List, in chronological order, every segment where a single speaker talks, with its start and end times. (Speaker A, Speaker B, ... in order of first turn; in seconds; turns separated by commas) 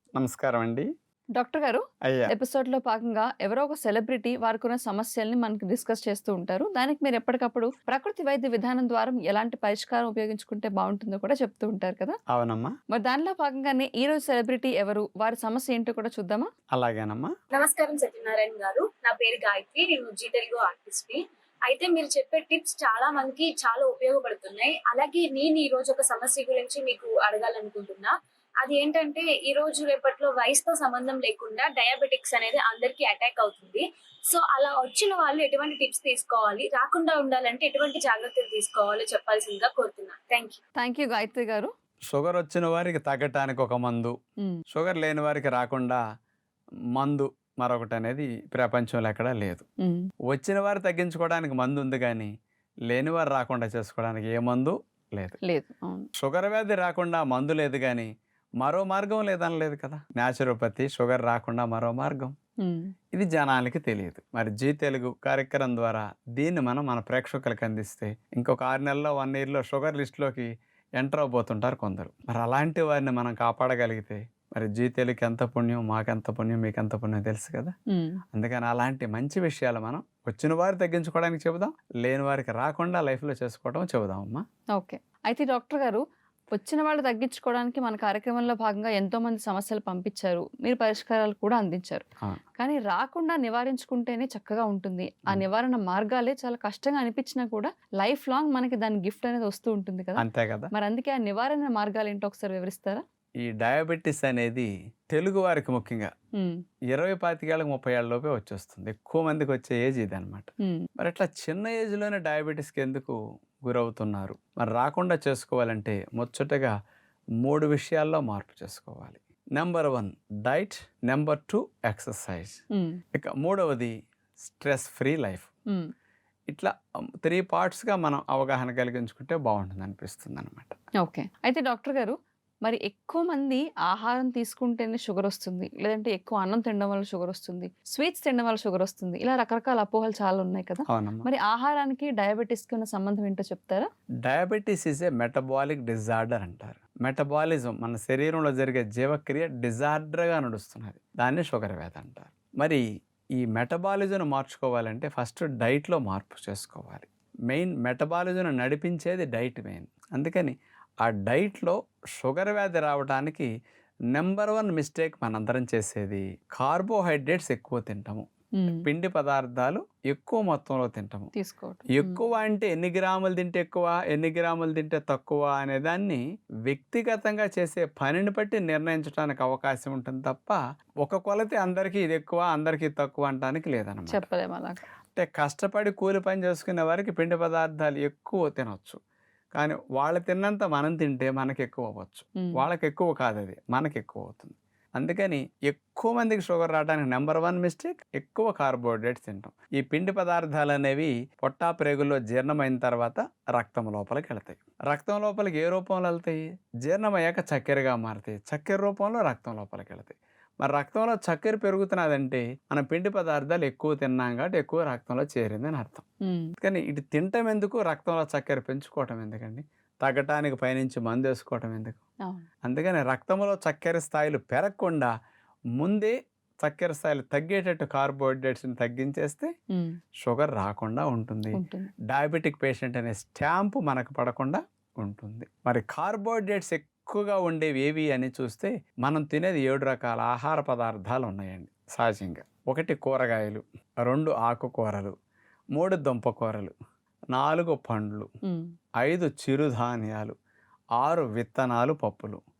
Speaker A: 0.2-0.9, Speaker B: 1.4-12.2, Speaker A: 2.0-2.3, Speaker A: 12.3-12.7, Speaker B: 12.9-16.5, Speaker A: 16.7-17.3, Speaker C: 17.5-40.6, Speaker B: 40.8-41.7, Speaker A: 42.1-44.1, Speaker A: 44.7-46.0, Speaker A: 47.0-49.6, Speaker B: 49.8-50.1, Speaker A: 50.3-52.3, Speaker A: 52.9-55.4, Speaker B: 55.4-56.1, Speaker A: 56.2-58.1, Speaker A: 58.6-62.3, Speaker B: 62.6-62.9, Speaker A: 63.1-77.7, Speaker A: 78.3-84.4, Speaker B: 84.8-86.0, Speaker B: 86.5-92.0, Speaker B: 92.6-103.0, Speaker A: 100.2-100.7, Speaker A: 103.4-106.1, Speaker A: 106.9-116.7, Speaker A: 117.4-122.6, Speaker A: 123.1-125.5, Speaker A: 127.2-130.8, Speaker B: 131.0-143.9, Speaker A: 140.9-141.3, Speaker A: 144.2-152.8, Speaker A: 153.4-163.5, Speaker A: 164.1-168.3, Speaker B: 168.6-168.9, Speaker A: 168.8-171.3, Speaker B: 171.3-172.2, Speaker A: 171.9-184.3, Speaker B: 184.1-184.8, Speaker A: 185.2-189.0, Speaker A: 189.6-216.1, Speaker B: 216.2-216.5, Speaker A: 216.6-222.0, Speaker A: 222.7-225.1, Speaker A: 225.8-229.5, Speaker A: 230.2-231.6, Speaker B: 231.6-231.9, Speaker A: 232.1-245.1, Speaker A: 245.8-246.7, Speaker A: 247.3-248.3, Speaker A: 249.0-250.3, Speaker A: 251.0-252.4